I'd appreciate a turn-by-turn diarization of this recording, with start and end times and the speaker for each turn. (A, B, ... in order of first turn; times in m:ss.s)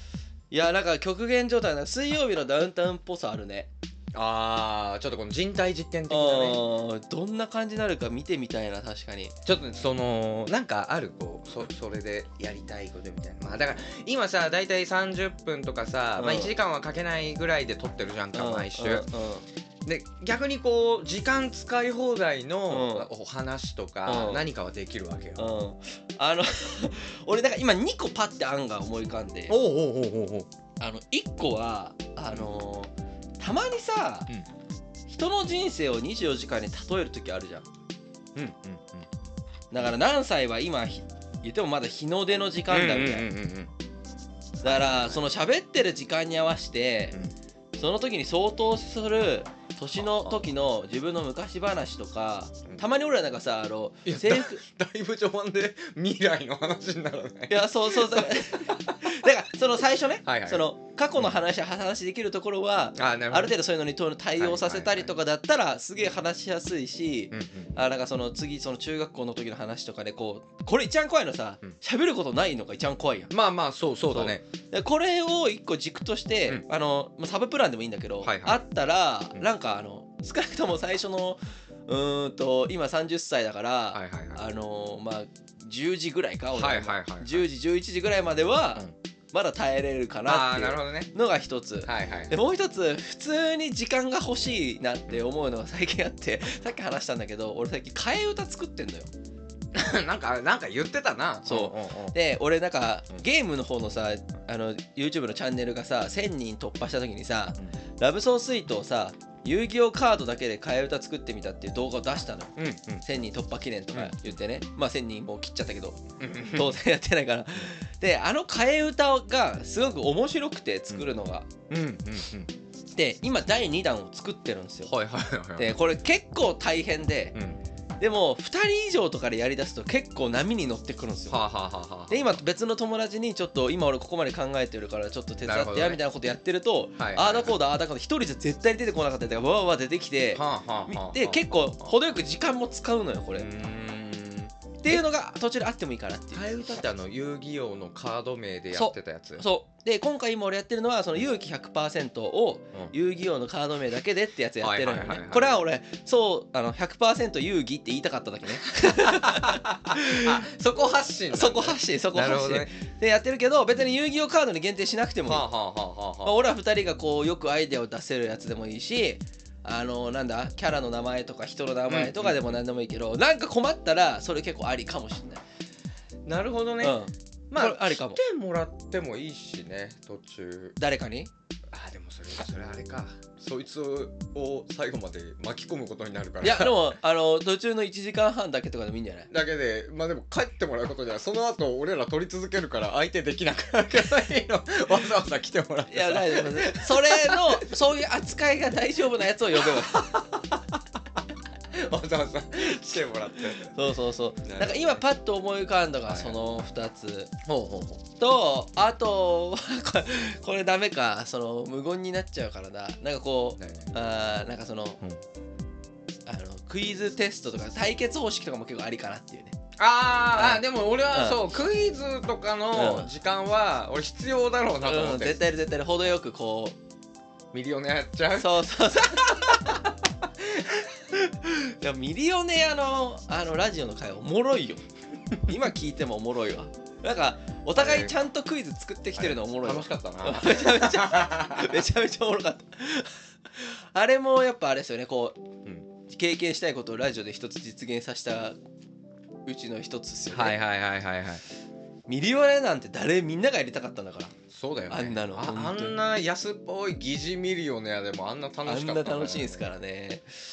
0:00.5-0:03.7 A
0:04.1-0:06.6 B
0:06.1-0:09.3 A
0:09.4-0:19.1 B
0:16.2-0:16.5 A
0:18.3-0:19.5 A
0:19.8-0:25.5 B
0:22.7-0:23.1 A
0:24.1-0:24.5 A
0:25.4-0:29.6 A
0:29.5-0:30.5 B
0:30.8-0:34.3 A
0:35.1-0:37.7 A
0:38.4-0:39.2 B
0:39.7-0:43.3 A
0:42.7-0:43.7 B
0:44.6-0:45.2 B
0:44.6-0:47.2 A
0:47.8-0:54.6 A
0:49.9-0:50.5 B
0:54.0-0:59.0 B
0:57.5-1:13.3 A
1:00.2-1:01.4 B
1:03.0-1:03.6 B
1:04.4-1:05.1 B
1:07.3-1:07.7 B
1:13.3-1:14.4 B
1:14.1-1:39.1 A
1:18.2-1:18.6 B
1:23.9-1:24.4 B
1:26.5-1:27.5 B
1:30.3-1:31.1 B
1:31.8-1:32.3 B
1:39.7-1:42.2 B
1:41.5-1:56.0 A
1:52.6-1:53.0 B
1:53.9-1:54.4 B
1:56.2-1:56.8 B
1:56.5-2:01.5 A
2:01.7-2:02.5 B
2:03.0-2:04.9 A
2:04.9-2:05.7 B
2:05.6-2:07.4 A
2:07.3-2:07.6 B
2:08.0-2:11.4 A
2:11.3-2:12.4 B
2:12.1-2:23.5 A
2:15.4-2:16.0 B
2:17.0-2:17.6 B
2:20.4-2:21.9 B
2:23.4-2:25.0 B
2:24.8-2:26.5 A
2:26.3-2:29.4 B
2:28.7-2:40.4 A
2:34.6-2:35.6 B
2:38.8-2:42.7 B
2:41.3-2:45.5 A
2:45.2-2:46.4 B
2:46.2-2:55.4 A
2:51.9-2:52.6 B
2:56.2-3:00.8 B
2:56.8-2:58.2 A
3:00.8-3:01.3 A
3:01.7-3:06.8 B
3:06.4-3:09.3 A
3:09.3-3:17.7 B
3:15.9-3:20.4 A
3:21.7-3:23.7 B
3:22.6-3:27.3 A
3:24.4-3:25.0 B
3:26.1-3:26.4 B
3:27.4-3:28.0 B
3:28.2-3:35.0 A
3:33.6-3:33.9 B
3:36.3-3:39.6 A
3:39.8-3:45.4 B
3:40.3-3:41.6 A
3:42.7-3:43.1 A
3:44.8-3:46.8 A
3:47.5-3:51.0 B
3:48.4-3:49.8 A
3:51.1-3:54.8 A
3:55.4-4:05.4 A
3:57.8-3:58.2 B
3:59.2-4:01.9 B
4:06.1-4:08.6 A
4:09.5-4:10.6 A
4:10.3-4:11.4 B
4:12.1-4:14.3 A
4:14.5-4:19.7 B
4:14.9-4:16.0 A
4:18.6-4:20.3 A